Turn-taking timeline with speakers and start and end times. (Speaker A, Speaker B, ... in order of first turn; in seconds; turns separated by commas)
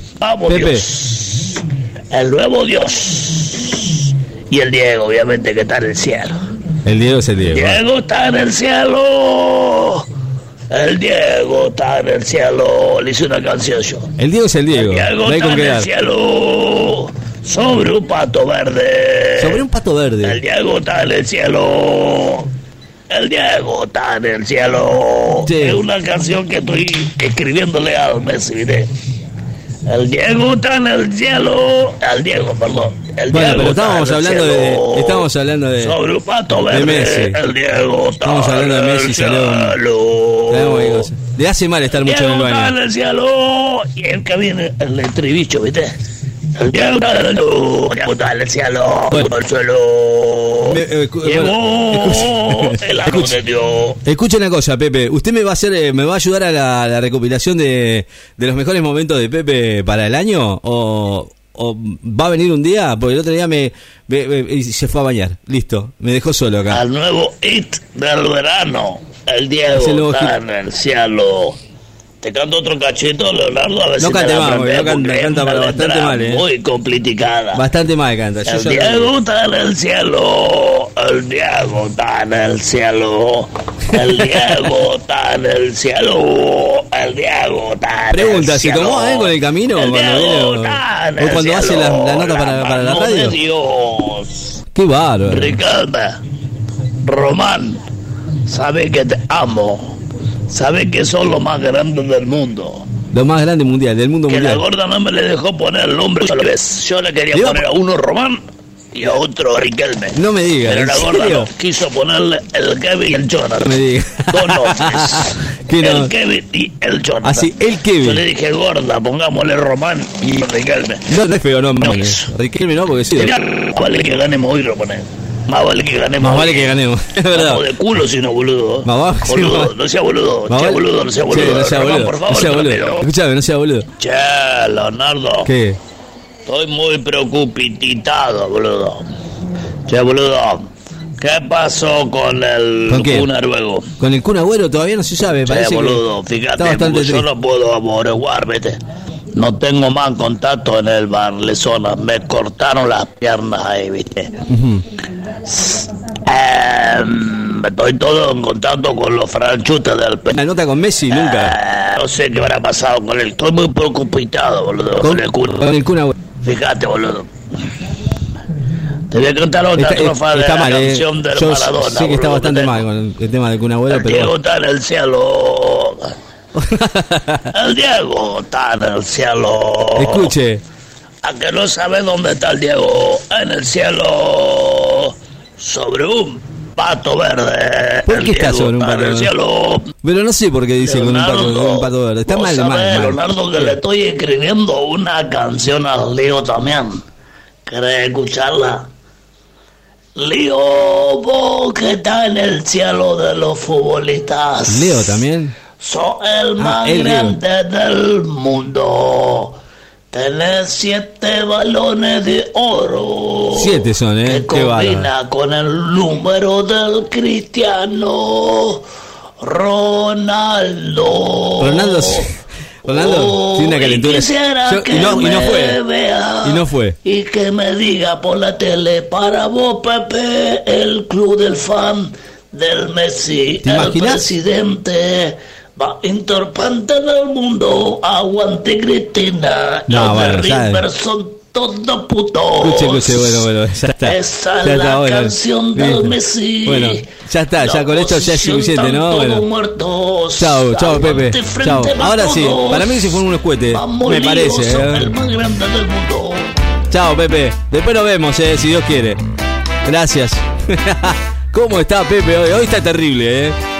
Speaker A: 0.2-6.4, Speaker B: 0.5-0.8, Speaker B: 6.8-7.8, Speaker A: 7.5-10.1, Speaker A: 10.7-14.1, Speaker B: 14.2-15.9, Speaker A: 14.7-19.6, Speaker B: 19.4-20.4, Speaker A: 20.2-22.5, Speaker A: 23.1-28.9, Speaker B: 25.4-25.8, Speaker A: 29.9-41.1, Speaker B: 33.3-36.0, Speaker B: 36.5-37.4, Speaker B: 38.2-39.8, Speaker B: 40.5-42.7, Speaker A: 41.9-46.0, Speaker A: 46.5-54.0, Speaker B: 50.7-53.4, Speaker B: 54.0-66.8, Speaker A: 66.7-71.6, Speaker B: 69.7-70.4, Speaker A: 72.2-77.6, Speaker B: 74.0-76.4, Speaker B: 77.5-79.1, Speaker A: 78.4-94.6, Speaker B: 83.9-84.4, Speaker B: 88.1-93.3, Speaker B: 94.7-95.6, Speaker A: 95.3-96.2, Speaker A: 97.0-97.8, Speaker A: 98.5-102.9, Speaker B: 103.1-104.6, Speaker A: 104.3-108.4, Speaker B: 107.3-107.6, Speaker A: 108.9-113.7, Speaker B: 110.1-111.5, Speaker B: 113.6-116.1, Speaker A: 114.3-117.5, Speaker B: 117.2-118.2, Speaker A: 118.0-121.1, Speaker B: 121.1-123.3, Speaker A: 121.8-122.3, Speaker A: 123.1-126.7, Speaker B: 126.2-127.6, Speaker A: 127.3-133.1, Speaker B: 128.8-129.7, Speaker B: 130.5-133.9, Speaker A: 134.0-135.5, Speaker B: 135.4-135.8, Speaker A: 136.5-139.0, Speaker A: 139.9-140.7, Speaker A: 141.2-143.9, Speaker B: 142.9-143.3, Speaker B: 144.0-146.0, Speaker A: 145.4-148.8, Speaker B: 146.6-147.3, Speaker A: 149.3-154.3, Speaker B: 154.5-154.8, Speaker A: 155.5-160.4, Speaker B: 160.3-161.6, Speaker A: 161.1-165.7, Speaker B: 165.0-166.1, Speaker A: 166.4-167.3, Speaker A: 169.1-172.8, Speaker B: 169.7-174.3, Speaker A: 173.9-176.1, Speaker B: 176.5-177.5, Speaker A: 177.5-180.3, Speaker B: 179.9-180.6, Speaker A: 181.2-189.9, Speaker B: 188.1-189.3, Speaker B: 190.0-193.8, Speaker A: 190.8-197.0, Speaker A: 197.7-198.9, Speaker A: 200.2-205.2, Speaker B: 204.7-205.5, Speaker A: 205.8-209.6, Speaker B: 206.6-207.4, Speaker A: 210.1-218.8, Speaker B: 213.5-215.1, Speaker A: 219.4-222.3, Speaker B: 221.6-222.3, Speaker B: 222.8-225.8, Speaker A: 222.9-243.4, Speaker B: 226.4-226.9, Speaker B: 233.6-234.2, Speaker B: 239.9-240.8, Speaker B: 242.6-249.4, Speaker A: 244.0-256.5, Speaker B: 250.4-255.1, Speaker B: 256.9-259.2, Speaker B: 259.8-263.6